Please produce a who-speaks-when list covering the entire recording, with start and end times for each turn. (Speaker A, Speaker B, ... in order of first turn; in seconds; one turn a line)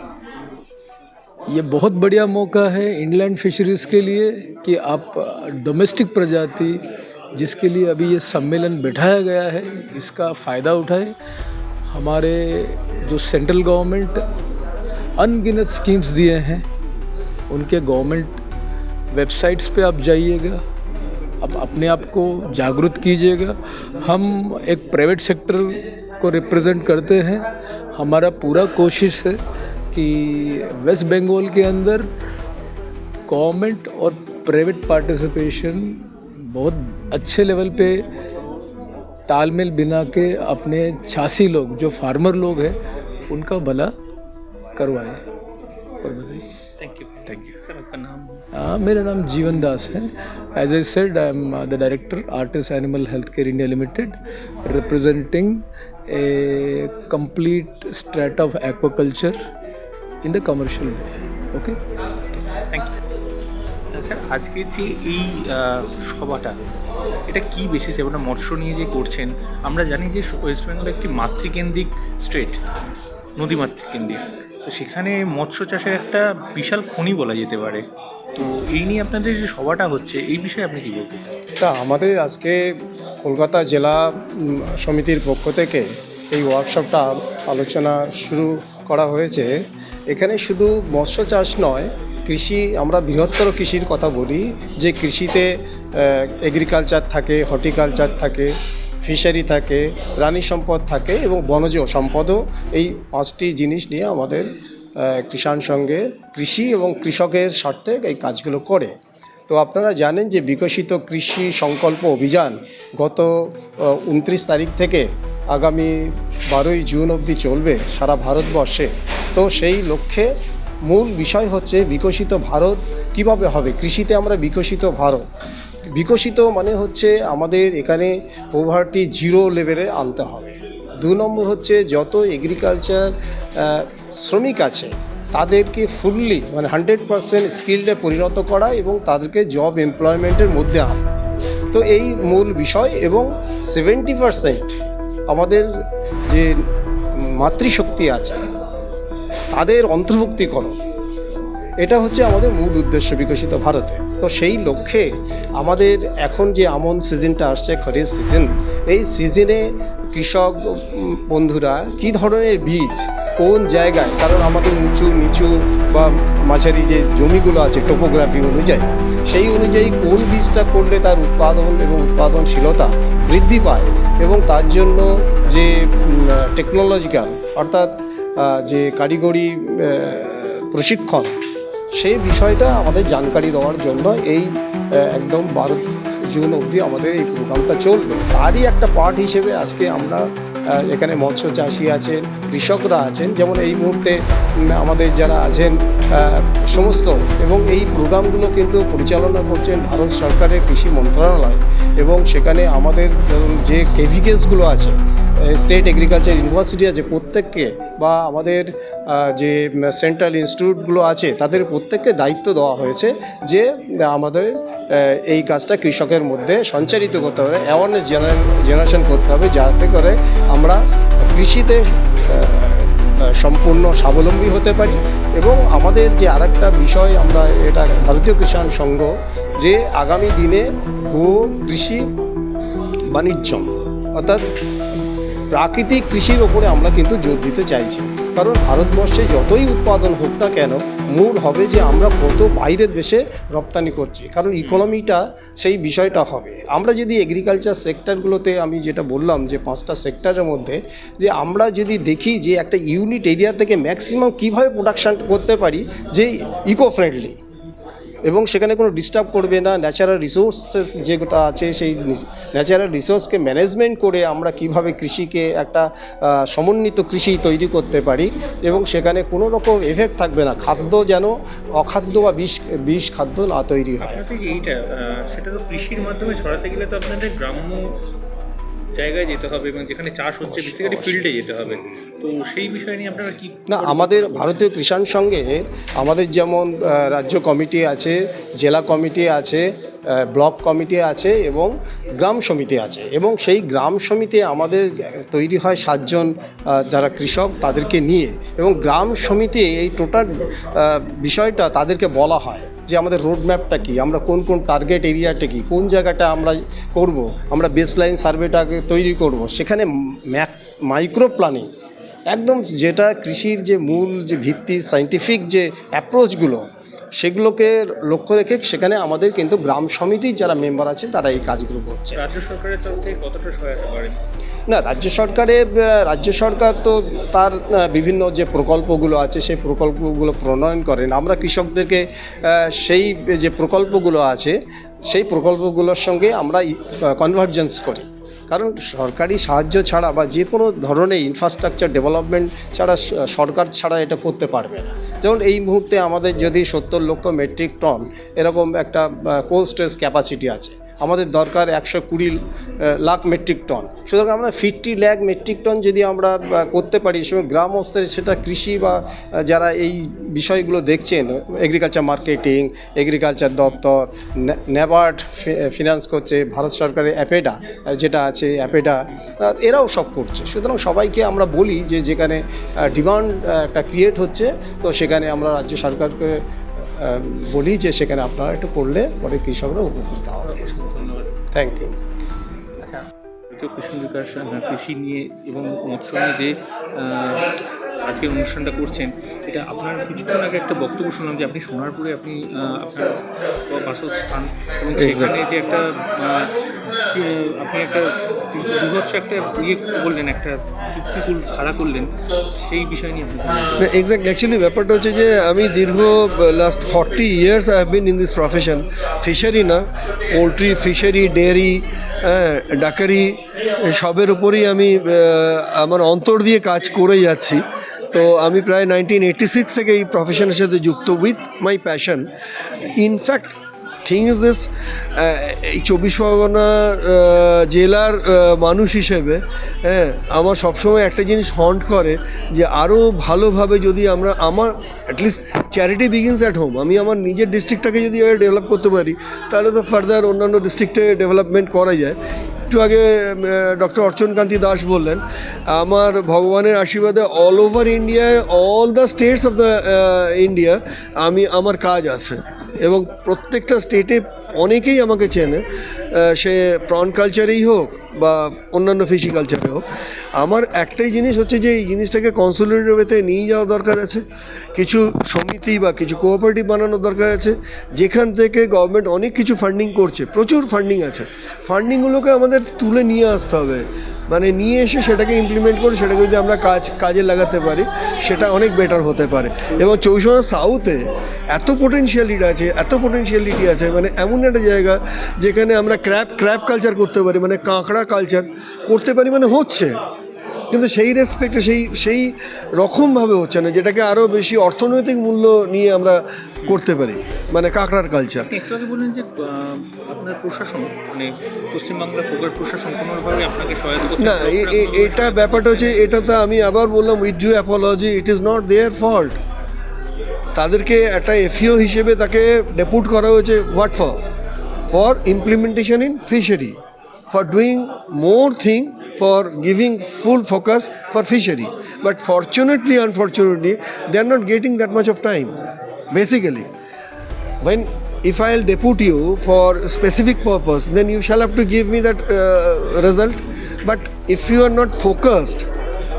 Speaker A: 1.5-6.8
Speaker A: 7.3-11.1
Speaker A: 11.9-14.2
Speaker A: 15.2-16.6
Speaker A: 17.5-18.4
Speaker A: 19.1-20.6
Speaker A: 21.4-29.4
Speaker A: 29.9-32.1
Speaker A: 33.3-38.1
Speaker A: 39.3-42.8
Speaker A: 43.3-43.9
Speaker A: 44.8-45.2
Speaker A: 46.0-46.5
Speaker B: 46.8-48.5
Speaker A: 48.5-59.4
Speaker A: 60.2-61.8
Speaker B: 63.9-66.6
Speaker B: 67.3-72.6
Speaker B: 73.4-81.4
Speaker C: 81.6-109.0
Speaker C: 109.5-125.3
Speaker C: 125.9-141.1
Speaker C: 141.7-146.6
Speaker C: 147.2-148.5
Speaker C: 149.5-150.8
Speaker C: 151.8-181.4
Speaker C: 181.9-232.1
Speaker C: 233.1-234.5
Speaker C: 235.5-257.4
Speaker B: 244.6-244.8
Speaker C: 258.2-274.2
Speaker B: 274.0-278.0
Speaker B: 278.9-284.6
Speaker C: 280.4-281.2
Speaker C: 283.7-311.7
Speaker C: 312.3-322.2
Speaker B: 322.1-324.2
Speaker C: 324.7-380.6
Speaker B: 380.4-381.4
Speaker C: 381.5-381.9
Speaker B: 382.8-396.5
Speaker D: 395.0-395.3
Speaker B: 397.1-403.9
Speaker D: 403.8-422.3
Speaker D: 422.9-442.2
Speaker D: 442.7-459.8
Speaker D: 460.4-464.2
Speaker D: 464.8-489.9
Speaker D: 490.7-498.5
Speaker B: 498.5-506.3
Speaker D: 504.2-509.4
Speaker D: 510.5-514.2
Speaker D: 514.9-516.8
Speaker D: 517.3-525.5
Speaker D: 526.1-526.7
Speaker D: 527.6-535.7